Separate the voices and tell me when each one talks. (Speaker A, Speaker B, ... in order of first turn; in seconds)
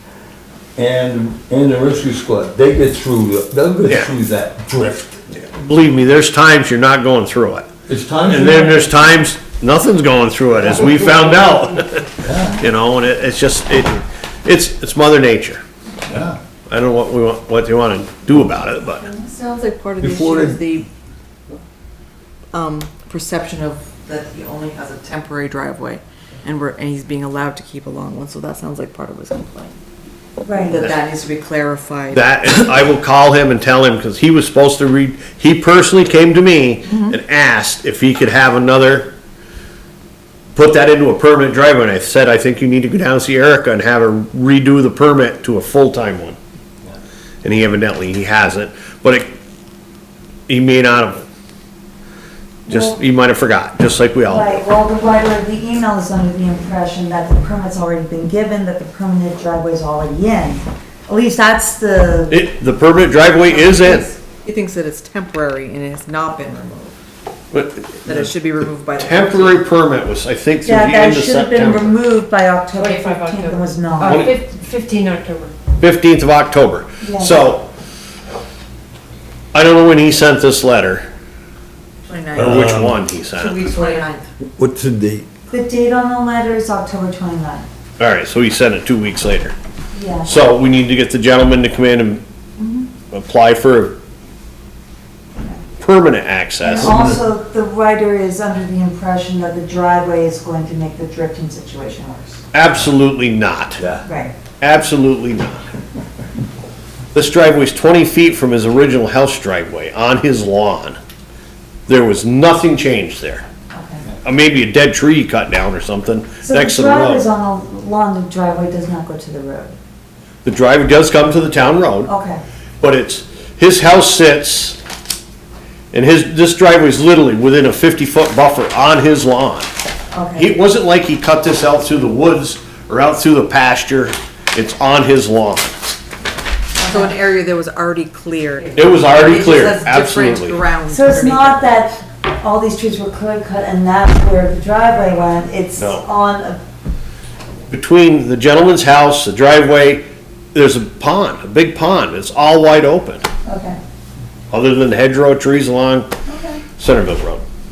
Speaker A: 0.8-5.2, 7.9-9.0, 12.2-12.6, 16.1-16.4, 20.0-20.7, 82.4-83.0, 84.5-85.3, 96.8-97.2
Speaker B: 5.5-7.7, 8.3-15.6, 16.7-19.1, 32.1-39.1, 40.5-46.4, 47.4-49.3, 50.5-51.3, 52.7-54.6, 62.3-64.1, 67.5-68.3, 69.0-72.0, 74.0-74.4, 75.8-77.7, 79.5-81.1, 82.3-83.7, 88.0-89.5, 90.2-92.2, 93.1-94.0, 95.8-97.0, 102.5-103.8, 104.6-105.7, 107.1-111.0, 111.9-113.5, 114.2-117.2, 120.5-122.1, 122.8-124.8, 125.9-129.7, 130.3-135.9, 138.8-140.6, 145.8-146.1, 147.7-153.3, 154.5-156.1, 156.8-157.4
Speaker C: 19.1-20.9, 22.5-29.7, 30.5-32.3, 63.5-66.9, 68.0-69.6, 82.1-82.7, 83.3-84.3, 136.8-141.8
Speaker D: 30.4-30.8, 52.7-53.0, 54.3-62.4, 70.6-74.3, 77.0-77.5, 83.8-84.0, 85.5-87.7, 89.9-90.3, 96.6-102.4, 104.0-104.3, 113.7-114.1, 116.4-119.8, 122.1-122.4, 130.1-130.6, 140.9-146.6, 153.4-153.8, 156.3-156.6
Speaker E: 72.8-75.5